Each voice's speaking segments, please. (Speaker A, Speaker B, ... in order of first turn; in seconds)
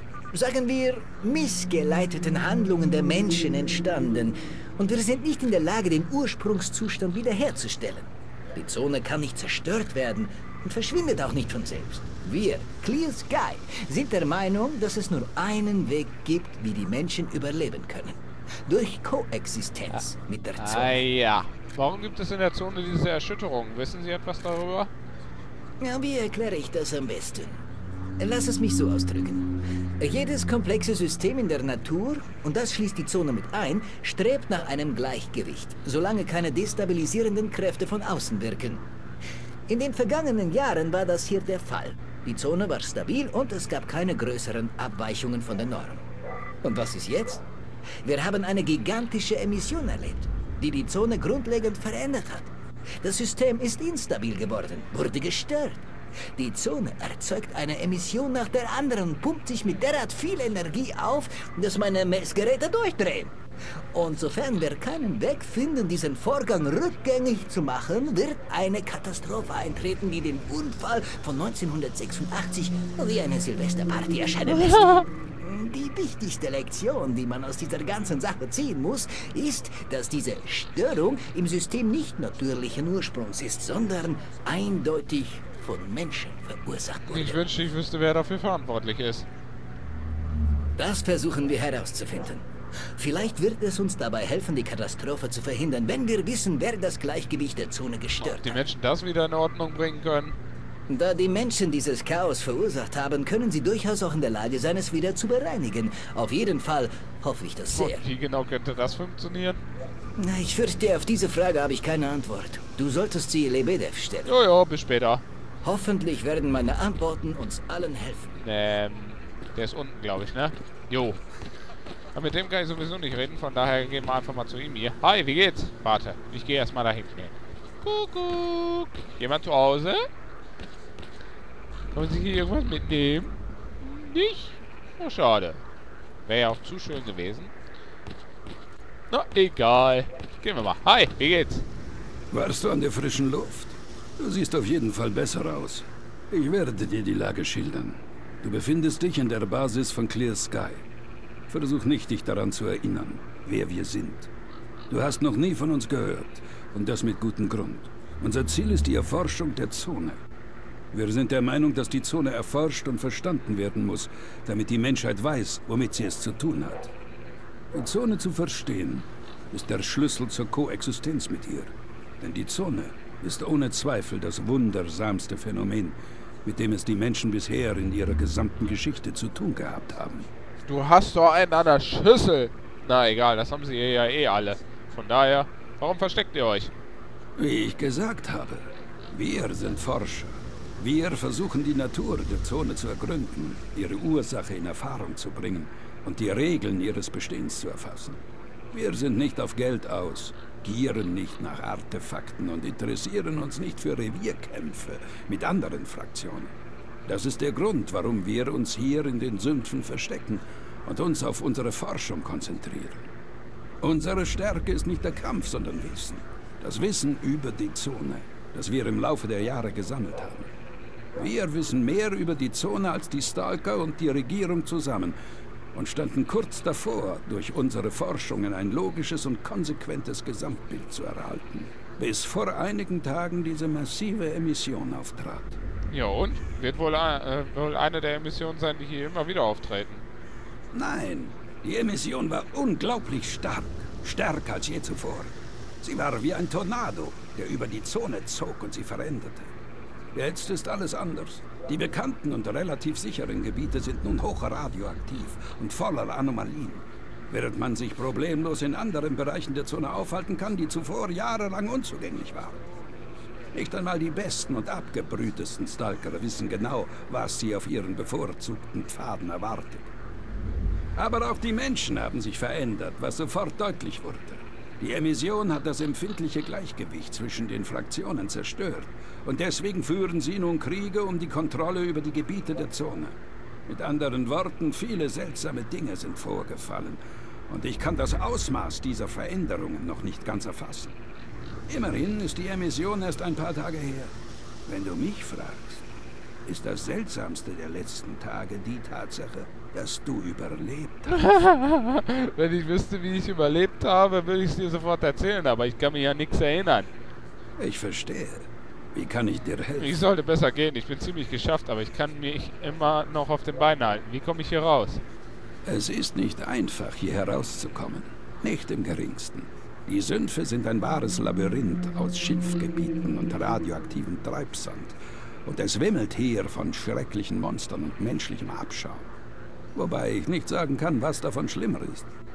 Speaker A: 0.3-21.0, 25.8-27.6, 28.2-38.9, 39.7-46.0, 46.6-47.5, 48.0-63.4, 63.9-87.5, 90.8-92.5, 93.0-98.6, 100.9-108.1, 110.2-114.3, 115.6-118.4
Speaker B: 20.6-24.9, 87.1-89.3, 98.2-100.4, 107.7-109.6, 114.3-115.2, 118.4-121.2, 122.2-130.1, 131.9-135.6, 136.3-137.5, 139.1-141.7, 180.7-186.7, 235.9-240.0, 301.1-306.9, 309.8-315.0
Speaker C: 142.3-150.8, 151.5-154.3, 154.9-160.2, 160.9-166.9, 167.7-180.3, 187.4-206.5, 207.1-213.1, 213.8-220.5, 221.2-225.2, 225.7-235.6, 240.7-249.5, 250.1-262.6, 263.5-269.9, 271.0-283.2, 283.7-291.0, 291.7-294.1, 294.7-295.9, 296.5-301.1, 307.6-310.0, 315.6-329.1, 329.8-332.1